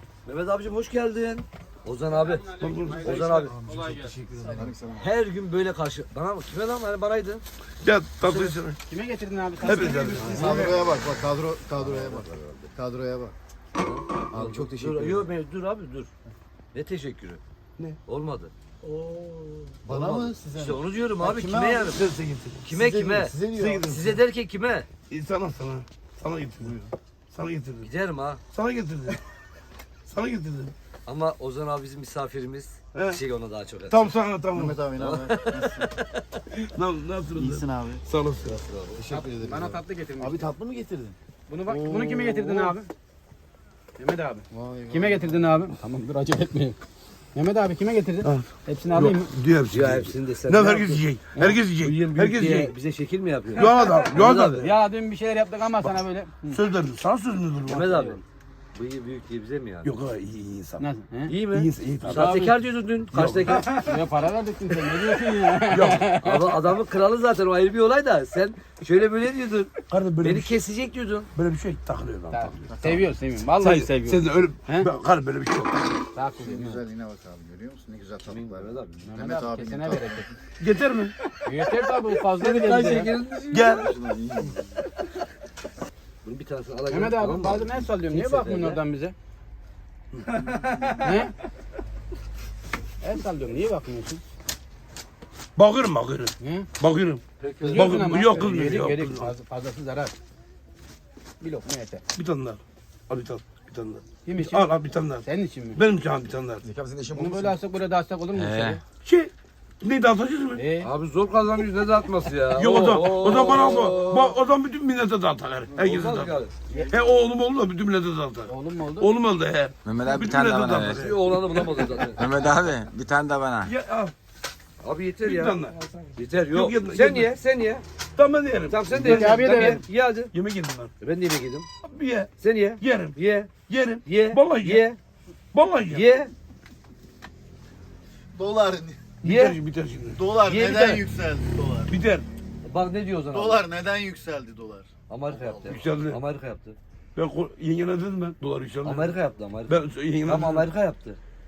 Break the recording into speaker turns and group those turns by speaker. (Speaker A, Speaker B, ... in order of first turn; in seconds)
Speaker A: 0.2-3.6, 4.9-7.4, 10.2-10.8, 11.7-12.7, 13.8-16.1, 16.7-17.4, 18.0-18.5, 19.9-22.1, 22.6-24.9, 27.8-28.4, 31.1-34.1, 35.0-36.2, 38.5-39.0, 49.7-51.1, 51.7-54.7, 57.7-58.2, 58.7-59.9, 61.3-63.7, 66.2-71.3, 78.2-79.2, 81.4-83.9, 86.2-88.8, 97.4-98.0, 110.8-114.3, 115.8-116.5, 120.9-122.2, 124.8-125.6, 126.1-127.8, 128.7-130.3, 131.0-131.7, 132.4-135.0, 135.9-136.3, 139.2-139.6, 140.4-141.0, 142.6-143.7, 145.1-146.8, 148.8-151.2
Speaker B: 2.6-3.2, 7.8-8.8, 9.6-10.6, 21.8-22.7, 23.5-24.1, 25.1-26.8, 27.3-27.9, 28.5-29.2, 30.1-30.7, 33.9-34.8, 36.6-38.6, 42.5-42.7, 48.2-52.7, 53.5-54.8, 56.5-58.2, 59.8-60.9, 61.5-62.4, 63.1-64.0, 65.1-66.1, 69.9-70.5, 71.3-72.9, 73.5-76.0, 80.6-81.1, 83.5-83.9, 90.2-91.1, 95.5-97.2, 97.7-99.3, 102.2-106.6, 109.0-109.3, 109.8-110.6, 112.5-116.4, 116.9-121.9, 123.7-124.1, 125.2-125.8, 126.5-127.3, 128.2-129.8, 130.3-130.9, 131.8-133.1, 133.7-134.9, 135.5-136.0, 139.2-140.2, 141.9-142.2, 145.7-146.2, 147.2-150.7
Speaker C: 2.6-4.6, 8.2-10.8, 39.1-40.5, 41.5-42.9, 44.0-46.8, 47.3-49.3, 54.5-56.6, 60.8-61.4, 62.0-62.5, 63.5-66.5, 72.3-74.9, 76.1-76.8, 79.0-80.3, 81.4-83.1, 86.9-89.1, 91.0-91.3, 93.0-94.2, 96.4-96.7, 97.6-100.1, 101.4-102.0, 104.2-104.7, 105.2-105.8, 107.1-108.8, 110.5-110.9, 118.5-119.1, 129.0-129.8
Speaker D: 3.4-5.0, 10.2-13.3, 14.3-15.3, 18.8-21.9, 22.6-24.2, 26.6-26.9, 34.5-35.9, 37.3-38.0, 38.9-41.1, 41.7-42.4, 44.5-45.5, 76.4-80.3, 83.7-84.6, 106.7-107.5, 138.3-139.0, 140.1-141.9, 143.3-145.8
Speaker E: 108.3-108.8, 119.8-121.1, 122.1-123.7